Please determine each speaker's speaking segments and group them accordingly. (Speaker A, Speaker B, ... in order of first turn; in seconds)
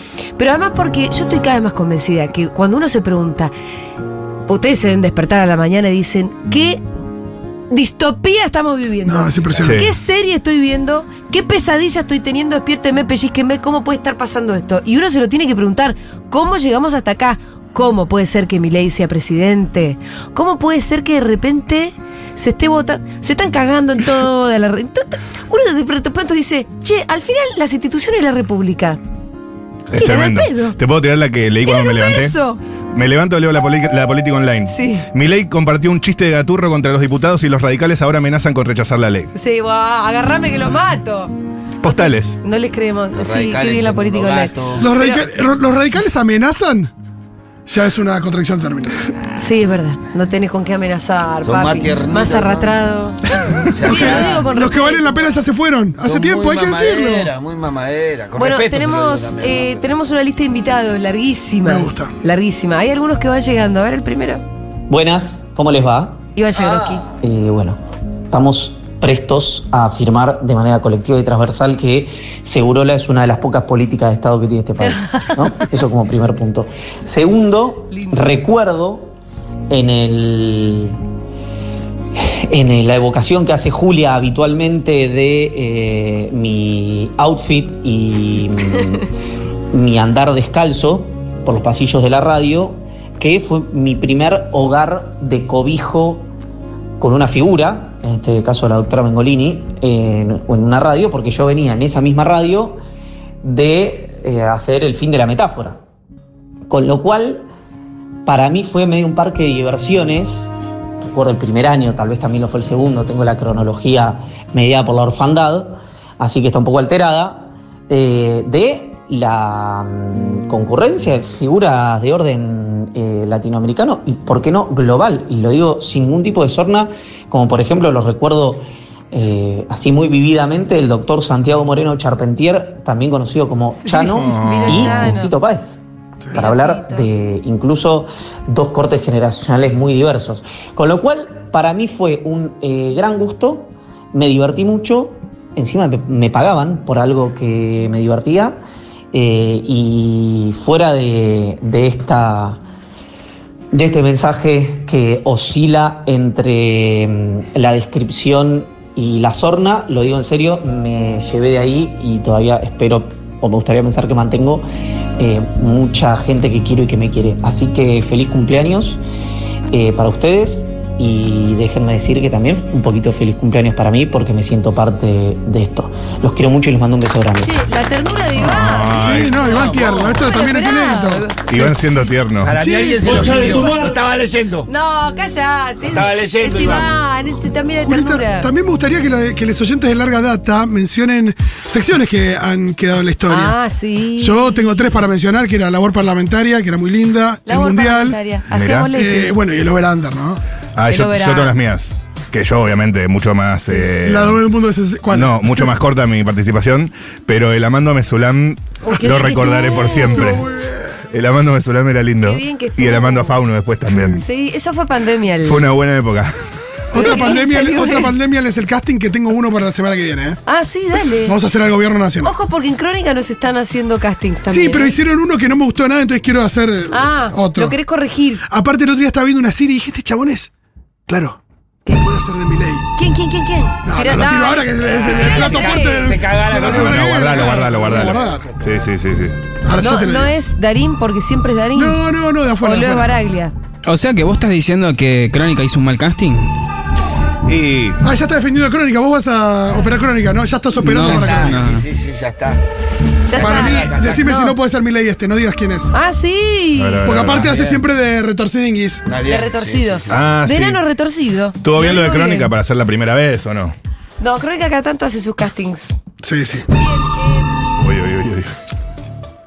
Speaker A: 0.4-3.5, 4.5-6.8, 7.7-29.0, 29.9-30.8, 31.6-32.6, 34.6-35.0, 39.3-41.3, 41.8-45.2, 49.4-53.2, 53.8-55.4, 58.4-64.4, 66.3-67.0, 74.9-75.2, 77.9-78.2, 133.7-135.3, 136.3-137.1, 177.4-181.7, 183.2-183.9, 184.7-188.5, 193.3-195.0, 197.5-199.4, 200.9-201.5, 208.8-210.4, 212.2-213.4, 214.1-215.7, 216.9-218.2, 220.5-221.3, 222.2-224.9, 226.9-228.4, 232.9-236.1, 239.8-242.0, 242.6-243.5, 253.3-254.5, 255.9-257.1, 259.2-262.5, 264.2-265.9
Speaker B: 9.0-9.8, 44.8-46.9, 47.7-49.1, 53.8-57.3, 61.6-62.1, 179.0-181.3, 182.7-183.2, 187.8-193.6, 194.2-198.2, 198.9-200.4, 204.0-205.7, 210.0-211.0, 216.9-220.4, 221.2-222.3, 224.5-227.8, 228.5-230.5, 231.1-231.4, 231.9-232.9, 233.8-238.5, 239.6-240.3, 241.7-243.2, 248.0-251.6, 253.3-255.9, 257.0-259.0, 266.2-266.7
Speaker C: 9.6-9.9, 29.9-32.4, 32.9-39.3, 41.8-42.4, 134.2-135.1, 178.4-179.5, 181.5-183.4, 198.5-198.9, 200.8-204.4, 205.1-210.5, 211.1-214.2, 215.4-216.3, 236.6-239.3, 247.4-248.0, 256.8-257.5, 260.1-260.8, 261.6-263.8, 267.8-268.5
Speaker D: 43.1-44.8, 51.4-52.7, 53.7-54.5, 56.0-59.9, 66.5-67.1, 179.5-180.2, 182.4-184.7, 185.8-186.9, 234.8-238.8, 251.0-252.6, 253.3-254.3, 257.3-257.8, 259.1-260.3
Speaker E: 64.9-66.2, 67.2-67.8, 68.3-79.1, 79.7-81.0, 82.1-89.0, 89.7-96.3, 97.0-102.8, 103.4-105.8, 106.7-107.5, 108.2-110.5, 111.0-148.6, 149.1-152.6, 153.7-164.7, 165.2-169.0, 169.7-177.6
Speaker F: 243.8-246.5, 250.8-251.8